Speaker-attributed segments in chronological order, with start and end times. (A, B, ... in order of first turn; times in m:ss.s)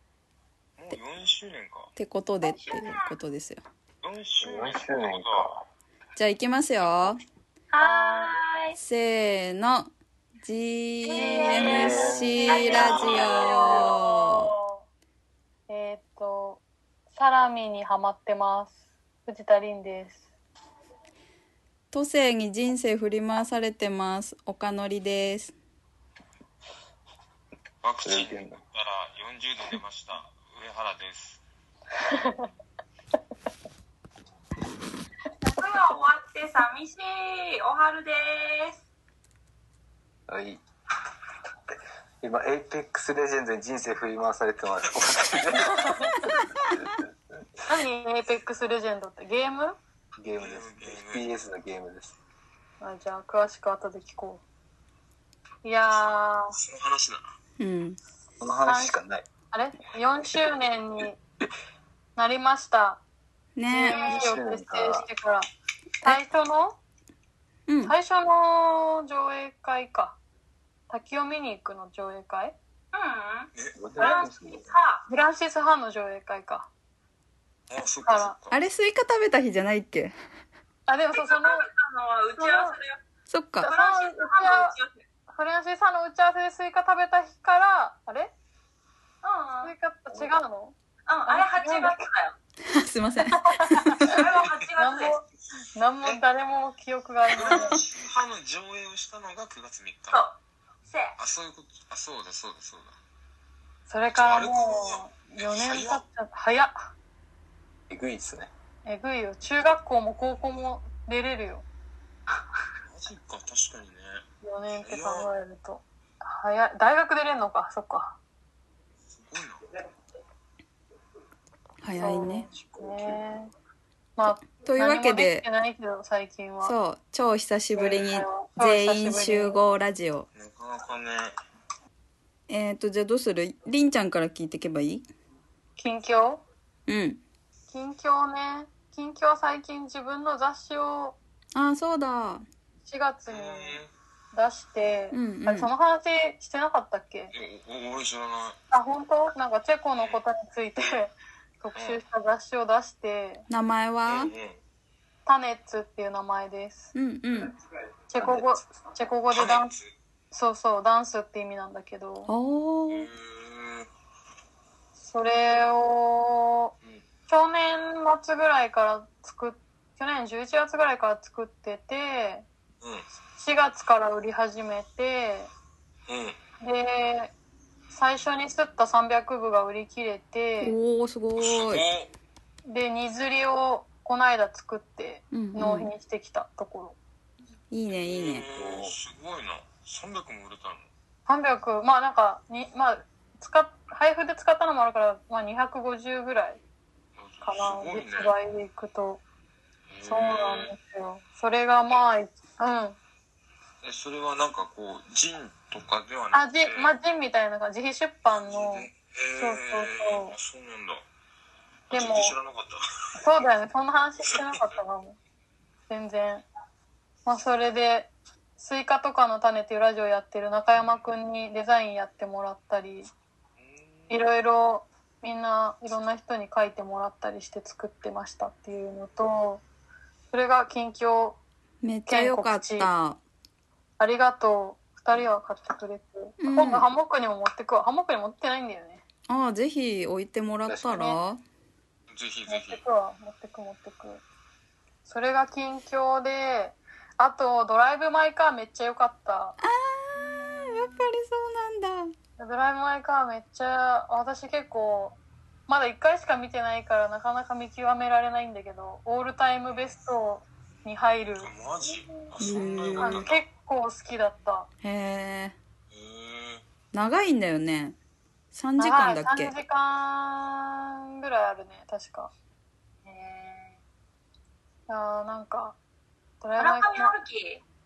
0:00.8-0:01.9 A
0:02.0-0:03.6 B
0:02.4-0:03.1 C
0:04.0-0:05.5 A
0:04.4-0:05.6 D
0:06.2-0:07.2 B
0:07.7-0:08.8 C
0:07.8-0:08.4 E
0:08.8-0:09.9 B
0:10.4-0:14.5 B
0:11.0-0:13.8 C
0:11.1-0:14.8 E
0:11.6-0:13.9 D
0:15.7-0:16.6 E
0:17.1-0:18.7 E
0:19.2-0:20.2 E
0:21.9-0:25.5 B
0:27.8-0:31.4 A
0:28.0-0:28.6 D
0:32.1-0:32.4 E
0:35.4-0:38.8 C
0:40.3-0:40.6 D
0:42.2-0:46.1 D
0:45.6-0:46.2 E
0:47.7-0:49.8 E
0:50.2-0:52.2 D
0:50.4-0:51.3 A
0:52.8-0:54.4 E
0:55.6-0:56.6 E
0:56.5-0:57.2 A
0:57.6-0:58.0 B
0:58.4-0:59.2 D
0:58.6-0:59.0 E
0:59.5-1:01.2 E
1:02.2-1:03.0 E
1:03.6-1:04.0 B
1:03.7-1:05.5 E
1:03.9-1:04.2 C
1:03.9-1:05.0 D
1:06.0-1:06.8 E
1:07.7-1:07.9 B
1:07.8-1:10.2 E
1:10.9-1:12.6 E
1:12.9-1:15.0 C
1:13.8-1:14.7 D
1:14.0-1:14.3 E
1:15.1-1:16.7 E
1:17.7-1:18.6 A
1:18.0-1:18.4 E
1:18.5-1:20.1 B
1:20.9-1:21.7 E
1:21.1-1:23.0 C
1:22.4-1:22.8 E
1:23.3-1:23.7 B
1:23.6-1:25.0 C
1:23.6-1:24.7 E
1:25.3-1:28.3 E
1:29.2-1:29.7 C
1:29.6-1:30.7 E
1:31.1-1:32.3 C
1:31.3-1:32.0 E
1:32.6-1:34.1 B
1:33.2-1:34.2 E
1:34.0-1:35.2 C
1:34.8-1:35.2 E
1:35.8-1:37.8 E
1:37.3-1:40.2 A
1:40.1-1:41.1 C
1:41.2-1:43.0 A
1:43.9-1:46.9 E
1:44.1-1:46.0 A
1:47.9-1:48.5 D
1:48.8-1:51.6 E
1:52.8-1:54.2 A
1:54.4-1:58.2 E
1:54.8-1:55.3 A
1:59.1-1:59.6 A
2:01.8-2:02.5 B
2:02.0-2:03.5 E
2:04.2-2:06.7 E
2:04.6-2:05.4 B
2:06.6-2:10.3 B
2:07.7-2:09.6 E
2:10.3-2:11.3 A
2:12.5-2:15.0 B
2:15.8-2:16.4 E
2:16.9-2:17.2 B
2:17.7-2:21.2 E
2:21.5-2:22.4 B
2:22.8-2:23.8 E
2:23.3-2:23.9 A
2:24.3-2:27.3 E
2:25.1-2:25.7 B
2:27.3-2:28.6 A
2:28.7-2:33.4 E
2:31.7-2:32.0 A
2:33.5-2:34.3 B
2:34.0-2:34.6 A
2:35.2-2:36.9 E
2:36.9-2:37.5 B
2:38.1-2:39.7 E
2:38.1-2:38.7 D
2:39.3-2:39.9 A
2:40.3-2:42.3 E
2:42.3-2:43.1 B
2:42.9-2:43.9 A
2:45.0-2:46.7 E
2:47.3-2:52.4 E
2:53.4-2:55.5 E
2:56.1-2:56.4 A
2:56.6-2:57.3 E
2:57.9-3:00.7 E
3:00.6-3:01.8 B
3:01.4-3:02.1 A
3:02.6-3:07.0 E
3:05.3-3:05.9 B
3:07.7-3:08.4 B
3:07.9-3:10.9 A
3:08.5-3:09.0 D
3:11.3-3:16.6 E
3:17.2-3:18.3 A
3:17.4-3:19.2 E
3:19.9-3:20.7 A
3:20.0-3:23.0 E
3:23.8-3:26.9 A
3:26.3-3:30.3 E
3:28.5-3:31.0 A
3:31.9-3:32.9 A
3:31.9-3:32.3 E
3:33.2-3:35.2 E
3:34.3-3:34.8 A
3:35.9-3:36.4 E
3:37.2-3:43.1 E
3:43.6-3:44.2 A
3:44.1-3:49.6 E
3:50.3-3:51.4 E
3:51.8-3:53.2 B
3:52.1-3:52.9 E
3:54.0-3:59.0 E
3:56.4-3:56.8 B
3:59.3-4:01.4 B
4:00.6-4:01.0 D
4:00.9-4:01.2 E
4:02.1-4:02.8 A
4:02.5-4:04.2 E
4:05.0-4:09.6 E
4:09.6-4:12.1 B
4:10.4-4:10.9 C
4:12.4-4:15.2 E
4:15.7-4:21.5 E
4:21.4-4:23.4 A
4:22.4-4:23.2 B
4:22.5-4:23.0 D
4:23.0-4:24.7 E
4:24.8-4:25.5 B
4:25.9-4:26.6 A
4:26.9-4:28.0 B
4:28.5-4:29.5 B
4:28.8-4:32.3 E
4:33.0-4:33.7 C
4:34.9-4:35.8 E
4:36.4-4:37.1 E
4:36.6-4:37.6 C